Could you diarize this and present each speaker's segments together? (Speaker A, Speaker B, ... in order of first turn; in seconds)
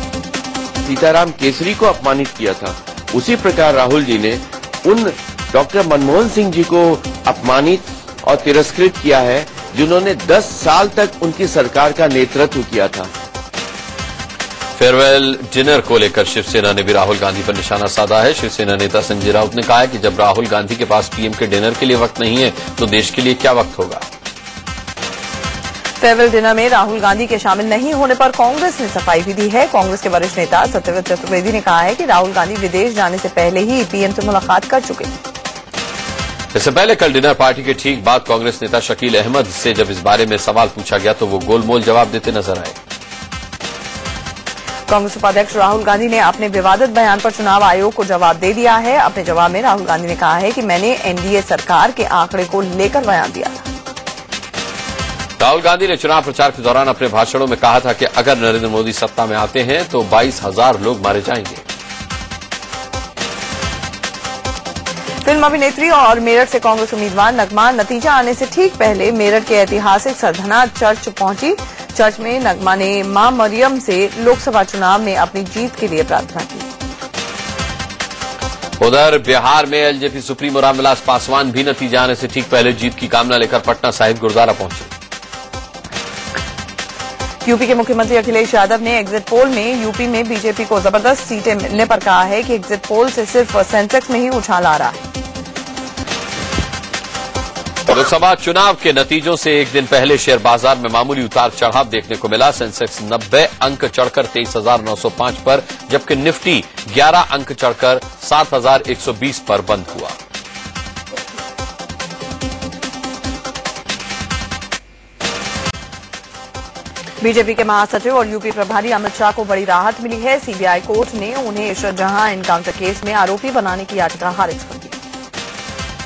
Speaker A: 0.8-13.1
Speaker B: 14.8-24.1, 36.5-42.8, 55.4-61.6, 78.8-84.9, 97.9-110.2
Speaker C: 26.0-35.1, 44.9-53.6, 65.2-76.7, 87.4-95.0, 117.2-125.0